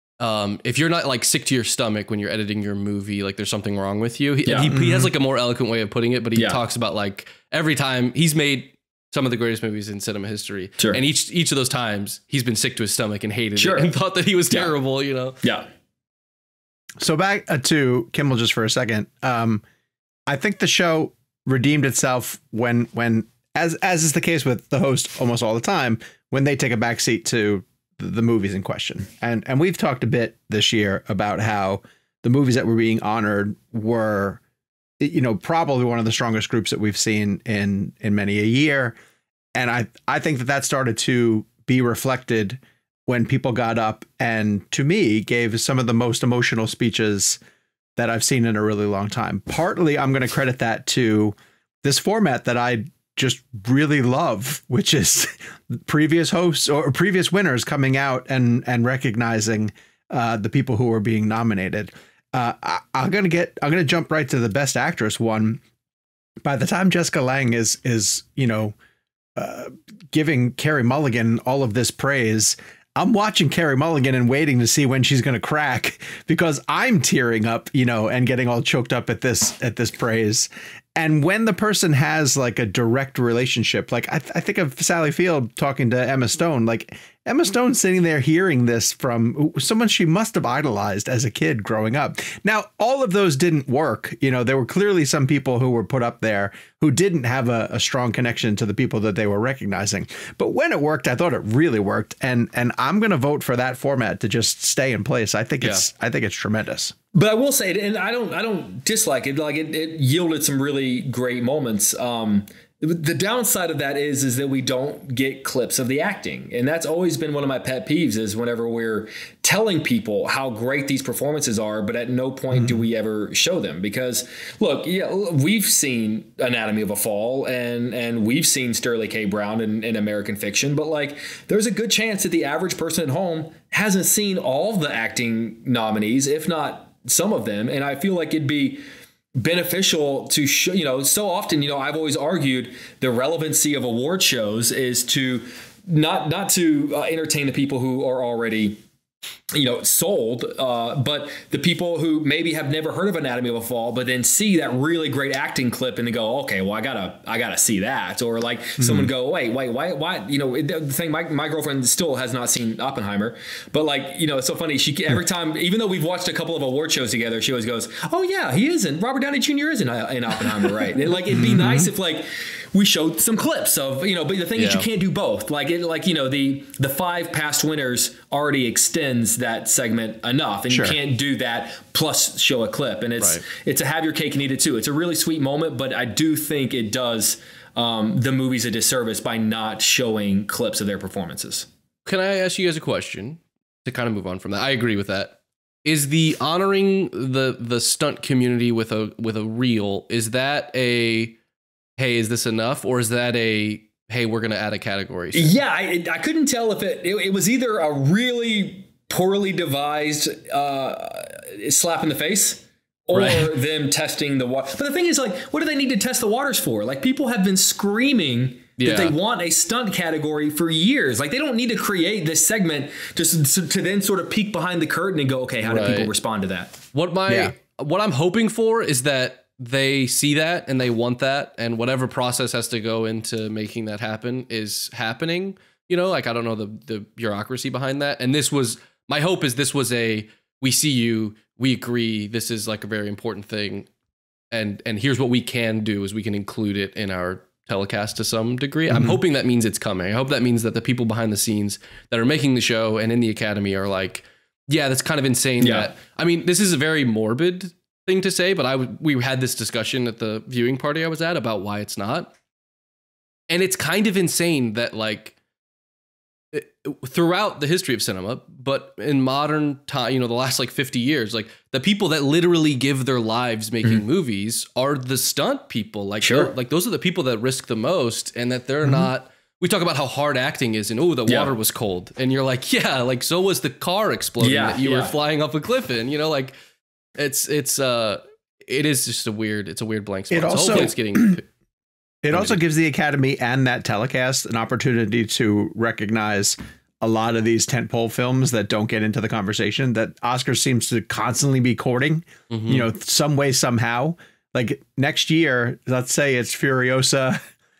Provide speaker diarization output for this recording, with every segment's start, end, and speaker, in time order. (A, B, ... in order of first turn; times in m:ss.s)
0:00.2-0:15.4 A
0:04.4-0:04.7 B
0:04.7-0:05.1 C
0:13.6-0:13.9 B
0:15.4-0:15.7 B
0:17.0-0:19.6 C
0:20.3-0:34.4 C
0:35.0-0:39.0 C
0:39.5-0:47.4 C
0:48.0-1:05.6 C
1:06.4-1:08.7 C
1:09.4-1:46.9 C
1:47.1-2:18.8 B
2:02.5-2:02.8 C
2:19.4-2:28.8 B
2:29.5-3:11.7 B
2:38.8-2:39.1 C
2:51.3-2:51.9 C
2:54.5-2:54.9 A
3:00.7-3:01.0 C
3:12.0-3:21.4 A
3:22.0-3:25.6 A
3:25.3-3:46.8 B
3:33.1-3:33.5 A
3:38.8-3:39.1 A
3:45.6-3:46.1 A
3:46.9-4:03.9 A
3:47.3-3:47.5 C
4:04.5-4:22.3 A
4:08.9-4:09.2 C
4:15.6-4:15.9 B
4:23.5-4:25.4 A
4:26.5-4:46.5 A
4:36.2-4:36.5 B
4:38.8-4:39.1 C
4:41.3-4:41.5 B
4:44.4-4:45.1 B
4:47.2-4:51.5 A
4:50.3-4:51.4 C
4:52.2-5:07.4 C
4:52.3-4:52.6 A
5:02.5-5:02.9 A